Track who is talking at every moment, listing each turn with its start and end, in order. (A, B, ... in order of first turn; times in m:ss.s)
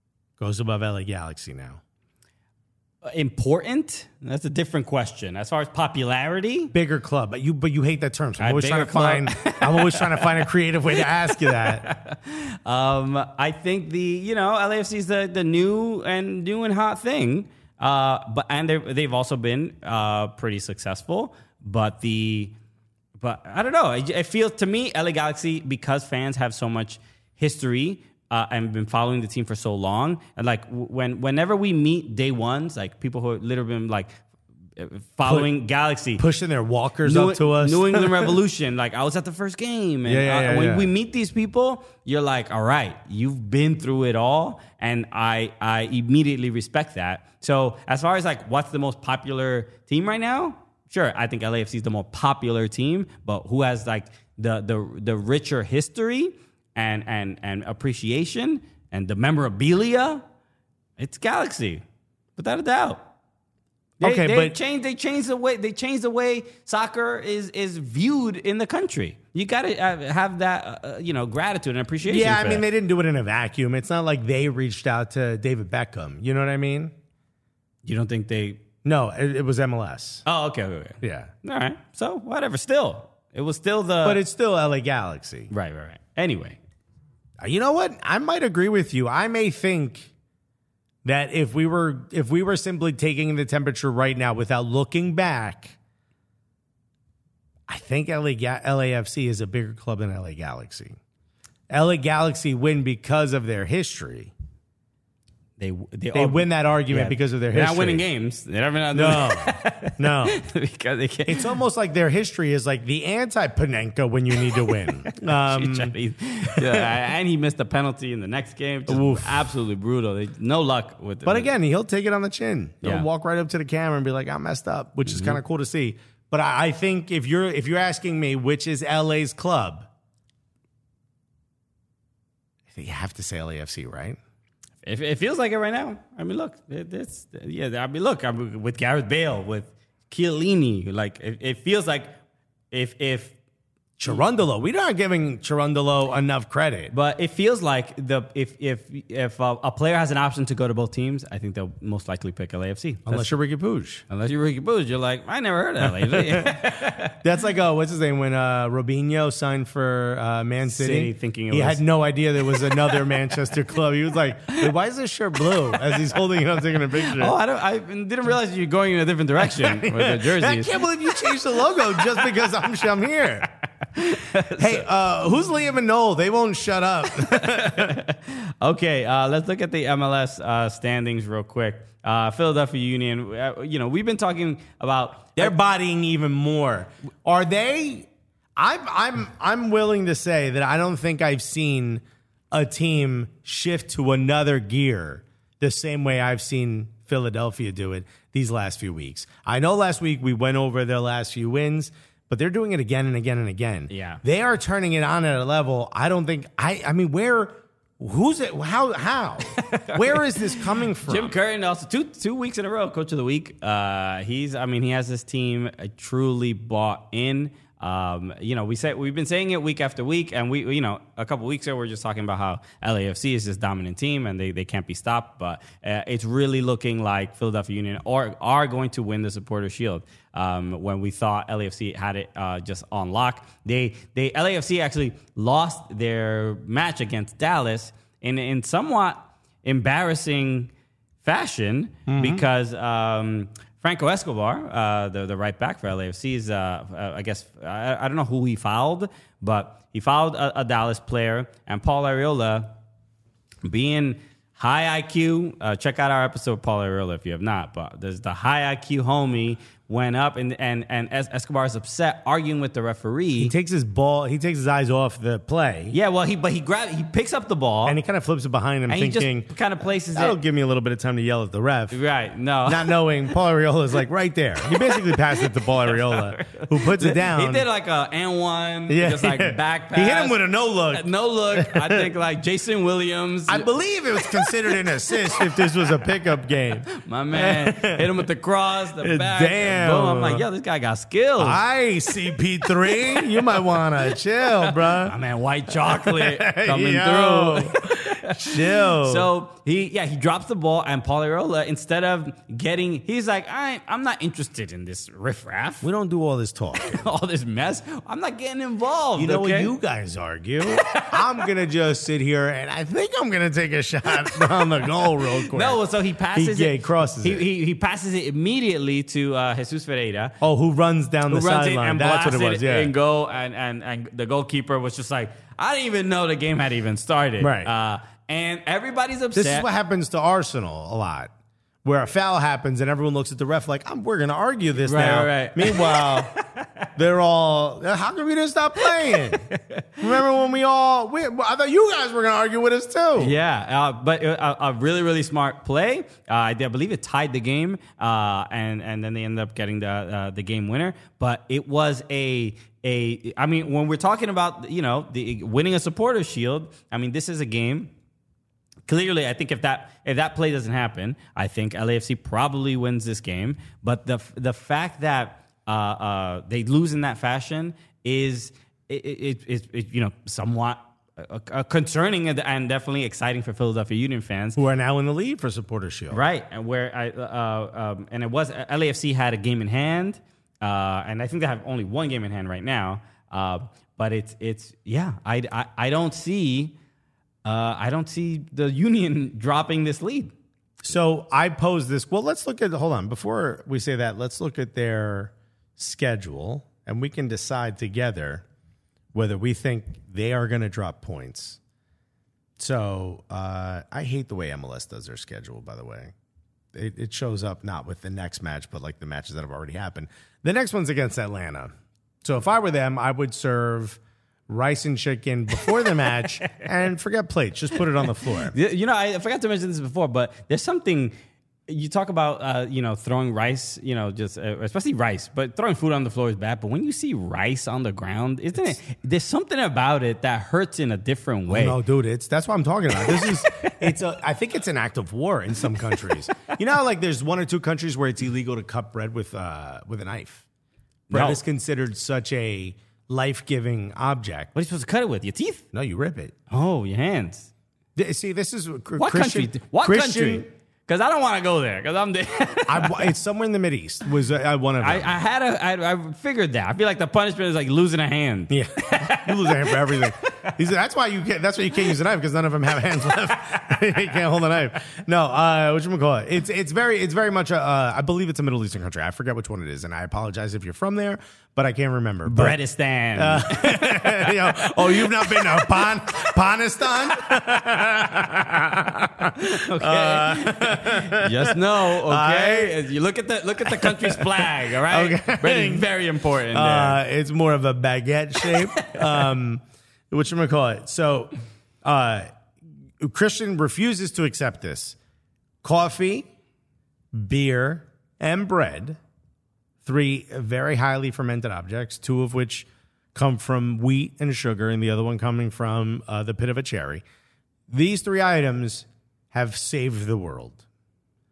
0:00.4-0:01.8 A
0:03.0-0:06.7 B
0:06.7-0:11.9 A
0:08.4-0:10.4 B
0:11.0-0:22.5 B
0:23.2-0:34.1 B
0:34.8-0:36.2 B
0:35.2-0:35.5 A
0:36.2-0:38.4 A
0:37.0-1:00.2 B
0:40.0-0:40.9 A
1:01.0-1:01.8 B
1:02.4-1:03.1 B
1:04.0-1:04.6 A
1:04.0-1:12.6 B
1:12.0-1:16.9 A
1:17.8-1:18.6 B
1:18.8-1:20.2 A
1:20.2-1:24.2 B
1:21.0-1:21.3 A
1:24.0-1:25.5 A
1:25.5-1:26.6 B
1:27.4-1:30.1 A
1:31.0-1:35.8 A
1:37.7-1:41.0 A
1:41.7-1:44.3 A
1:45.6-1:51.6 B
1:46.1-1:48.0 A
1:48.9-1:50.4 A
1:51.3-1:56.9 A
1:55.1-2:01.5 B
1:58.9-1:59.5 A
2:01.2-2:09.9 A
2:05.1-2:05.4 B
2:12.7-2:14.2 A
2:14.8-2:22.1 B
2:22.7-2:23.3 B
2:24.0-2:26.9 A
2:26.9-2:33.3 B
2:33.0-2:34.0 A
2:34.1-2:37.1 B
2:35.8-2:47.4 A
2:40.6-2:41.8 B
2:47.0-2:50.8 B
2:49.5-2:53.5 A
2:53.9-2:54.8 B
2:54.5-2:58.0 A
2:57.2-3:05.5 B
3:05.4-3:31.3 A
3:23.9-3:24.2 B
3:29.6-4:00.7 B
4:01.2-4:12.7 B
4:02.1-4:02.4 A
4:13.6-4:23.5 B
4:23.4-4:25.9 A
4:25.9-4:28.0 B
4:27.8-4:29.5 A
4:28.9-4:30.4 B
4:30.1-4:32.0 A
4:31.9-4:33.0 B
4:32.6-4:37.6 A
4:34.8-4:43.7 B
4:38.9-4:42.0 A
4:43.5-4:48.2 A
4:44.2-4:45.4 B
4:46.9-4:51.6 B
4:49.0-4:50.4 A
4:51.4-4:55.1 A
4:53.2-4:53.6 B
4:54.6-5:05.9 B
4:55.8-4:59.3 A
5:05.8-5:07.0 A
5:06.8-5:09.7 B
5:09.2-5:15.8 A
5:10.8-5:11.2 B
5:15.2-5:20.4 B
5:16.3-5:17.4 A
5:20.4-5:22.9 A
5:21.3-5:29.7 B
5:27.4-5:27.7 A
5:29.3-5:31.3 A
5:31.8-5:36.4 A
5:34.8-5:36.6 B
5:36.9-5:39.5 A
5:39.5-5:39.8 B
5:40.0-5:43.3 A
5:43.2-5:57.9 B
5:58.9-6:14.6 B
6:14.6-6:16.2 A
6:16.1-6:26.7 B
6:27.4-6:30.3 B
6:30.8-6:38.4 A
6:39.1-6:41.6 A
6:42.6-6:46.1 A
6:46.7-6:51.7 A
6:52.2-6:58.5 A
6:58.5-7:01.1 B
7:01.7-7:11.8 B
7:11.5-7:20.4 A
7:21.1-7:24.5 A
7:21.1-7:21.4 B
7:24.5-7:25.6 B
7:25.7-7:26.3 A
7:26.5-7:27.5 B
7:28.0-7:30.4 A
7:29.0-7:33.1 B
7:32.7-7:35.1 A
7:34.8-7:39.8 B
7:38.5-7:52.6 A
7:52.2-7:55.6 B
7:53.1-8:02.8 A
7:59.4-8:07.0 B
8:03.6-8:05.9 A
8:06.5-8:11.3 A
8:11.8-8:12.3 A
8:13.0-8:15.0 A
8:15.6-8:16.3 A
8:17.1-8:19.0 A
8:19.8-8:27.0 A
8:27.7-8:30.6 A